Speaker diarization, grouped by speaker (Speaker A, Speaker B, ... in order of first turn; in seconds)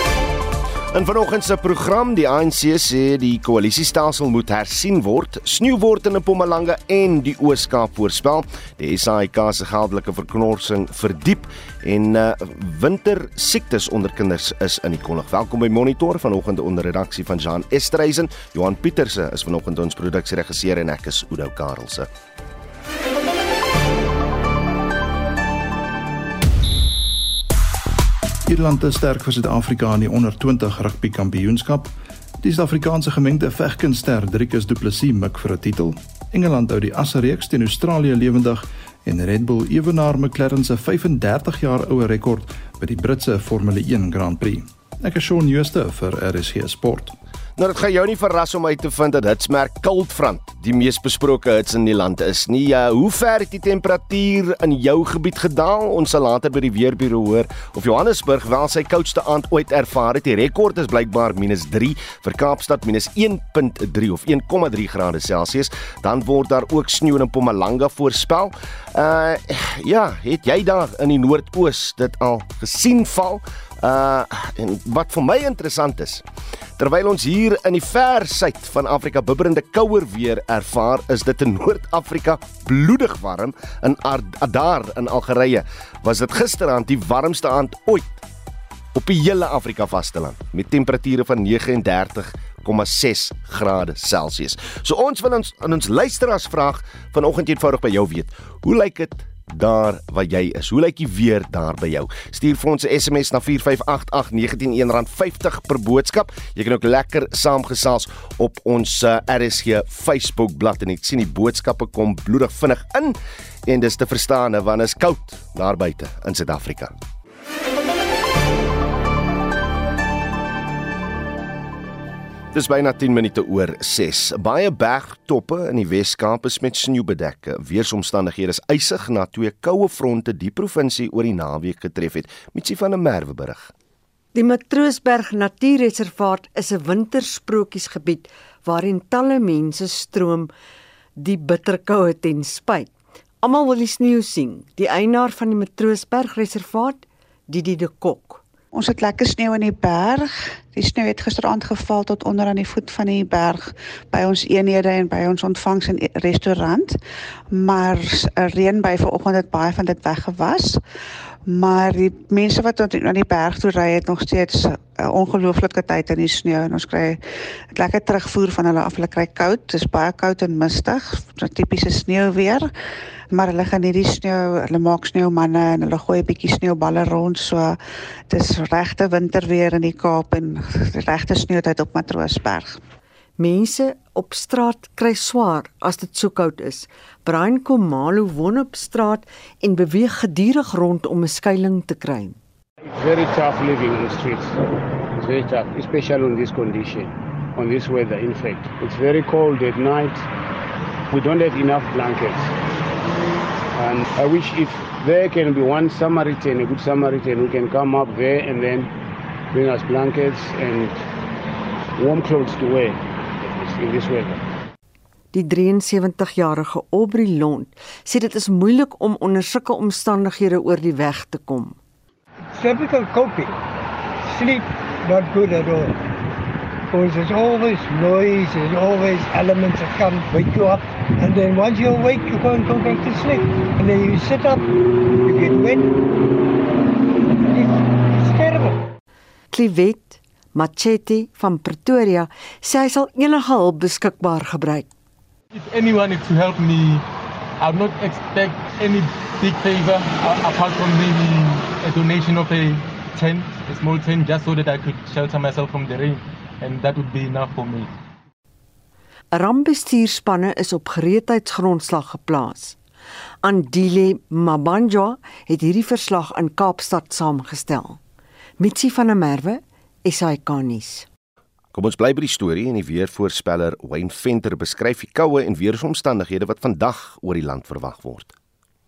Speaker A: 0.9-22.1, 47.6-76.2, 76.8-88.2, 88.9-116.9, 122.5-133.7, 271.7-278.3
Speaker B: 28.4-47.1
Speaker C: 134.3-140.5, 141.2-148.4, 183.4-192.4, 215.3-221.8, 239.5-244.9, 259.3-262.8, 263.4-268.0, 268.6-271.1
Speaker D: 148.7-157.0, 157.5-160.8, 161.4-167.2, 167.7-172.7, 173.3-182.8
Speaker E: 192.8-194.5, 195.1-200.2, 201.1-202.4, 203.7-208.9, 209.5-210.9, 212.0-214.4
Speaker F: 222.6-223.6, 224.3-226.0, 226.9-236.0, 237.2-238.8
Speaker G: 245.5-247.0, 247.6-257.9